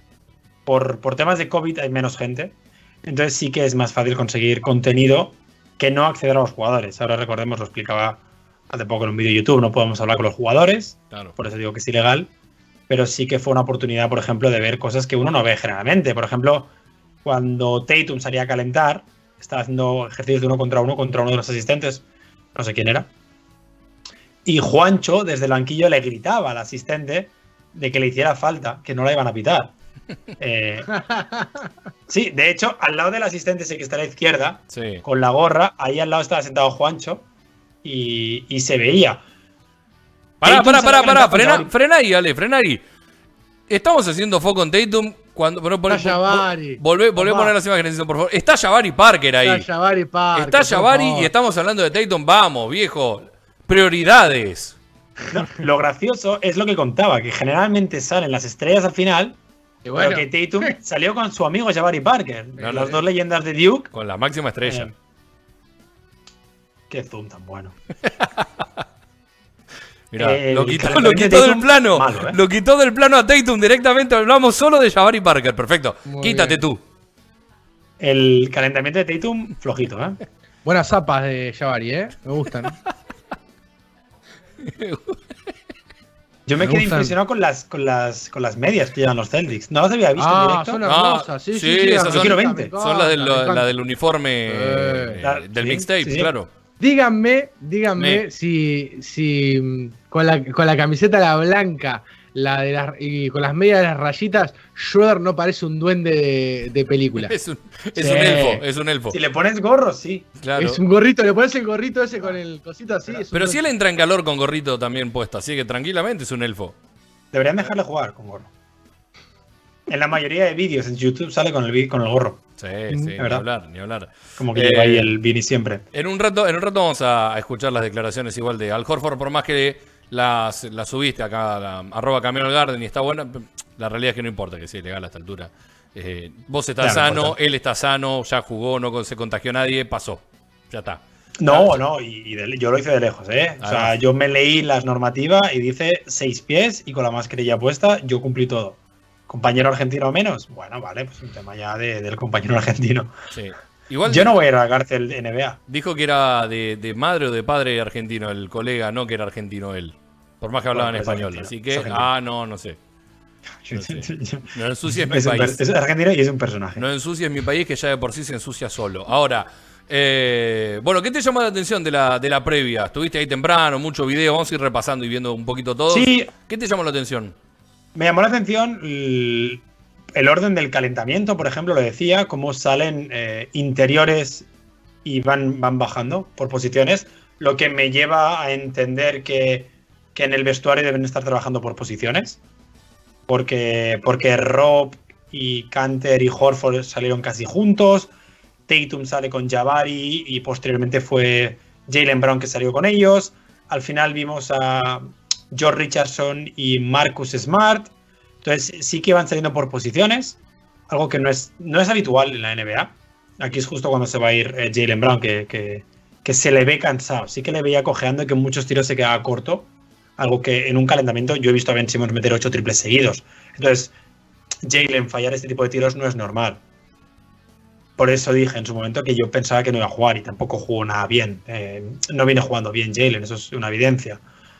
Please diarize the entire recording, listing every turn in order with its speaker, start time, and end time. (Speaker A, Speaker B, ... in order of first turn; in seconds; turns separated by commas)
Speaker A: 0.7-12.3, Speaker A: 12.9-16.7, Speaker A: 17.2-23.1, Speaker A: 24.4-29.7, Speaker A: 30.4-30.9, Speaker B: 30.9-31.7, Speaker A: 32.1-37.2, Speaker C: 34.7-35.0, Speaker A: 37.8-39.2, Speaker C: 40.4-42.8, Speaker A: 40.4-41.7, Speaker C: 43.7-49.7, Speaker B: 45.9-47.5, Speaker B: 49.4-51.3, Speaker C: 50.3-54.8, Speaker A: 55.3-59.4, Speaker B: 59.8-60.7, Speaker A: 60.0-63.9, Speaker B: 62.6-63.0, Speaker C: 62.6-62.9, Speaker C: 63.9-64.9, Speaker A: 64.6-64.9, Speaker A: 66.9-67.7, Speaker C: 68.0-68.8, Speaker C: 70.1-76.8, Speaker A: 70.2-72.4, Speaker B: 76.0-76.6, Speaker A: 78.0-80.2, Speaker B: 80.6-82.8, Speaker C: 84.6-85.3, Speaker A: 86.5-90.8, Speaker B: 86.6-87.1, Speaker B: 90.2-93.7, Speaker C: 90.8-96.5, Speaker A: 92.0-92.7, Speaker B: 94.5-95.2, Speaker A: 95.2-96.3, Speaker B: 96.8-107.3, Speaker C: 98.0-98.2, Speaker C: 107.2-109.2, Speaker A: 108.0-110.3, Speaker C: 110.4-110.8, Speaker B: 110.6-113.7, Speaker C: 113.3-116.7, Speaker A: 117.3-118.5, Speaker A: 119.9-122.4, Speaker C: 122.6-125.1, Speaker A: 123.2-123.4, Speaker A: 124.4-125.8, Speaker C: 125.9-141.8, Speaker A: 136.8-137.3, Speaker A: 141.4-148.8, Speaker C: 143.6-144.0, Speaker A: 149.3-153.1, Speaker C: 153.3-154.3, Speaker A: 154.1-155.6, Speaker C: 155.7-162.8, Speaker A: 160.7-162.1, Speaker A: 163.6-166.8, Speaker C: 163.7-165.6, Speaker C: 166.8-177.3, Speaker A: 175.9-176.3, Speaker A: 177.9-179.6, Speaker A: 180.1-184.4, Speaker A: 185.0-192.4, Speaker A: 193.3-198.1, Speaker A: 198.7-207.9, Speaker A: 208.4-210.4, Speaker A: 210.9-223.9, Speaker A: 224.6-226.6, Speaker A: 228.0-234.2